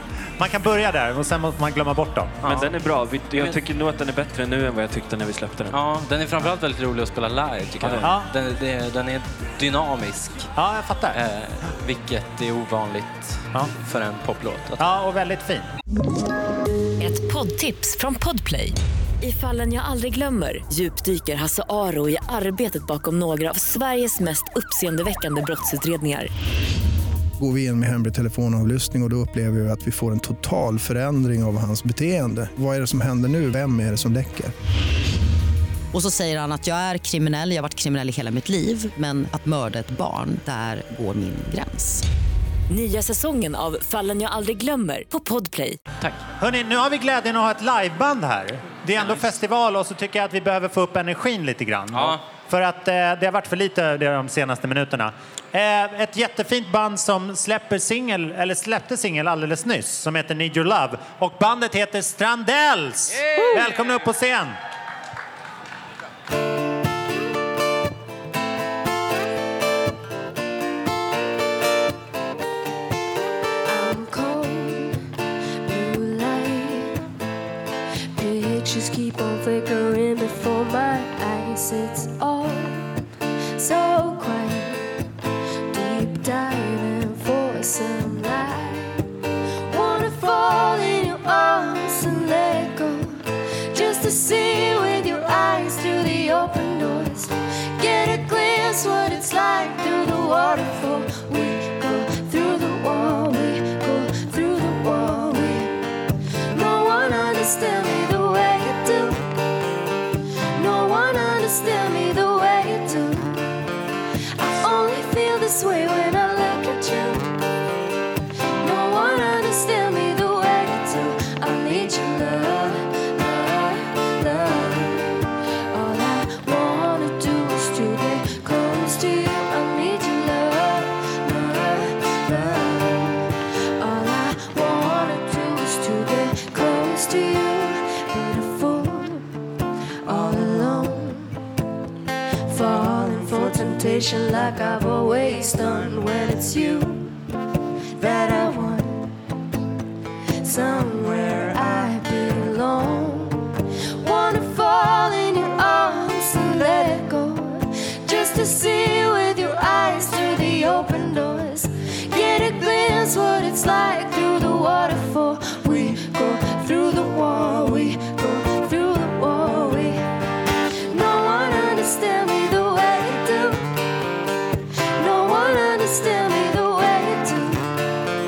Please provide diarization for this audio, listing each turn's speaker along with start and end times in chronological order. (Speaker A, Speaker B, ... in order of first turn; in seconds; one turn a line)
Speaker A: 0.4-2.4
Speaker B: 2.4-2.7
Speaker C: 2.4-5.8
Speaker B: 5.7-10.5
Speaker C: 7.8-8.1
Speaker A: 8.0-8.3
Speaker A: 10.6-11.2
Speaker B: 11.1-14.8
Speaker A: 14.8-15.7
Speaker D: 17.0-26.3
Speaker E: 27.4-34.5
Speaker F: 35.9-42.0
Speaker D: 42.7-45.8
Speaker A: 46.4-64.6
Speaker B: 51.9-52.2
Speaker B: 63.3-63.6
Speaker G: 73.7-75.1
Speaker G: 75.6-77.0
Speaker G: 78.2-82.9
Speaker G: 83.5-84.9
Speaker G: 85.7-89.1
Speaker G: 89.7-105.8
Speaker G: 106.5-109.3
Speaker G: 110.5-113.6
Speaker G: 114.4-117.4
Speaker G: 118.6-139.3
Speaker G: 140.0-141.4
Speaker G: 142.5-147.1
Speaker G: 147.9-149.1
Speaker G: 150.4-170.0
Speaker G: 170.9-173.7
Speaker G: 174.9-177.7